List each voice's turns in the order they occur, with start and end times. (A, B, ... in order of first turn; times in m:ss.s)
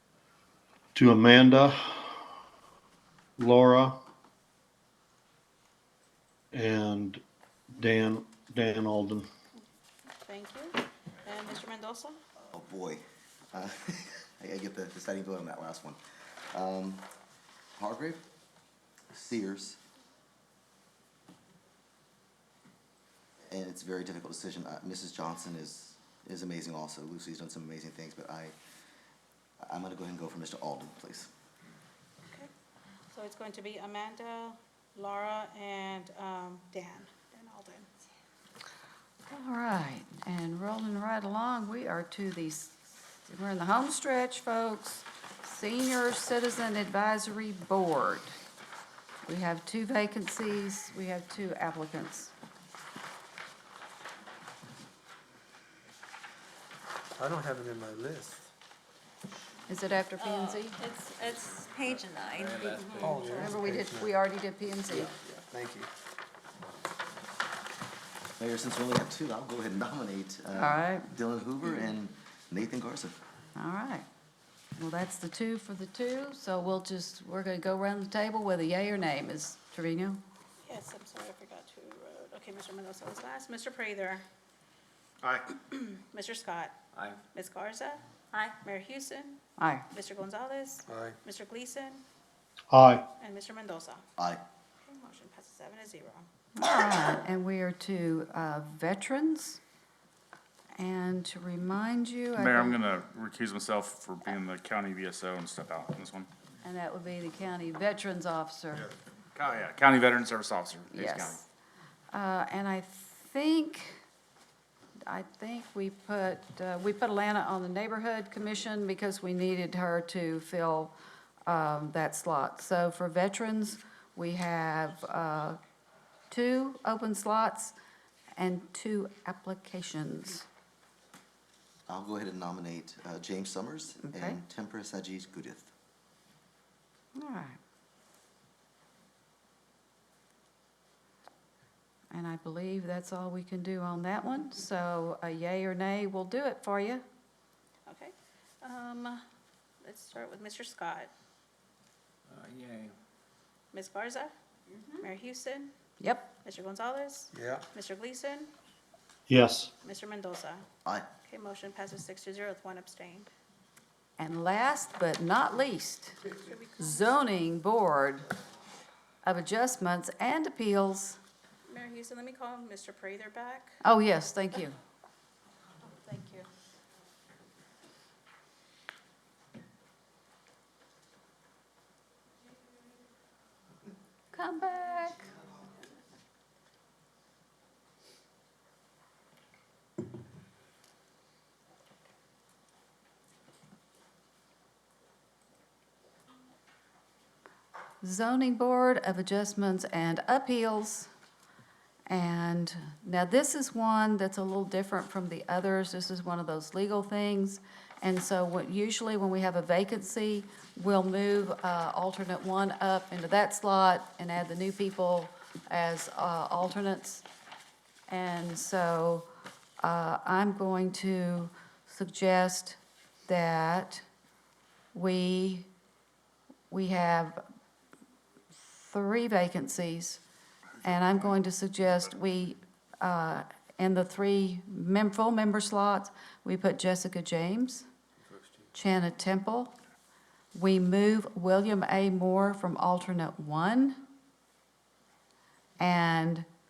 0:00.9-0:02.1 A
0:03.4-0:04.0 A
0:06.5-0:07.2 A
0:07.7-0:09.3 A
0:10.2-0:12.2 B
0:12.5-0:13.0 C
0:13.5-0:16.0 C
0:16.5-0:17.1 C
0:17.8-0:18.2 C
0:19.1-0:19.8 C
0:23.5-0:28.5 C
0:29.6-0:31.3 C
0:33.1-0:37.9 B
0:39.3-0:48.4 D
0:49.2-0:52.3 D
0:57.2-0:58.5 E
0:59.7-1:00.8 D
1:00.2-1:03.0 F
1:01.4-1:03.5 G
1:02.7-1:03.1 B
1:03.0-1:04.1 E
1:03.3-1:05.1 D
1:04.9-1:05.9 E
1:08.4-1:13.1 C
1:10.5-1:11.1 D
1:13.5-1:14.0 D
1:14.8-1:20.2 D
1:20.6-1:24.2 B
1:25.5-1:26.8 B
1:26.9-1:27.2 G
1:27.3-1:28.0 B
1:28.6-1:29.4 B
1:29.6-1:29.8 D
1:29.9-1:32.0 B
1:30.9-1:31.2 E
1:32.7-1:33.0 A
1:33.2-1:34.0 B
1:34.2-1:34.4 C
1:34.8-1:36.3 B
1:36.6-1:39.6 D
1:40.8-1:42.8 D
1:42.4-1:46.3 H
1:46.6-1:48.9 D
1:49.3-1:51.4 H
1:50.9-1:51.4 D
1:52.1-1:54.0 D
1:55.0-2:00.9 D
2:01.4-2:05.6 D
2:06.3-2:07.7 D
2:08.4-2:10.4 D
2:11.9-2:15.7 C
2:14.0-2:14.4 D
2:17.1-2:17.6 D
2:22.1-2:27.0 D
2:27.9-2:29.2 B
2:29.8-2:31.1 B
2:32.3-2:33.0 G
2:33.7-2:34.3 B
2:34.7-2:35.1 F
2:35.0-2:35.7 B
2:36.0-2:36.3 D
2:36.4-2:38.5 B
2:37.3-2:37.6 E
2:39.3-2:39.7 A
2:39.8-2:40.6 B
2:41.2-2:43.3 B
2:44.2-2:46.2 D
2:46.4-2:47.1 B
2:46.8-2:48.3 D
2:49.2-2:51.2 D
2:51.7-2:53.8 B
2:53.8-2:54.8 D
2:55.8-2:56.5 B
3:04.3-3:05.3 D
3:18.0-3:21.1 D
3:22.1-3:37.2 D
3:38.1-3:39.3 D
3:39.8-3:44.0 D
3:44.9-3:45.7 D
3:46.7-3:47.4 D
3:48.6-3:50.2 D
3:50.8-3:57.8 D
3:58.7-3:59.7 D
4:00.5-4:04.0 D
4:05.8-4:06.4 D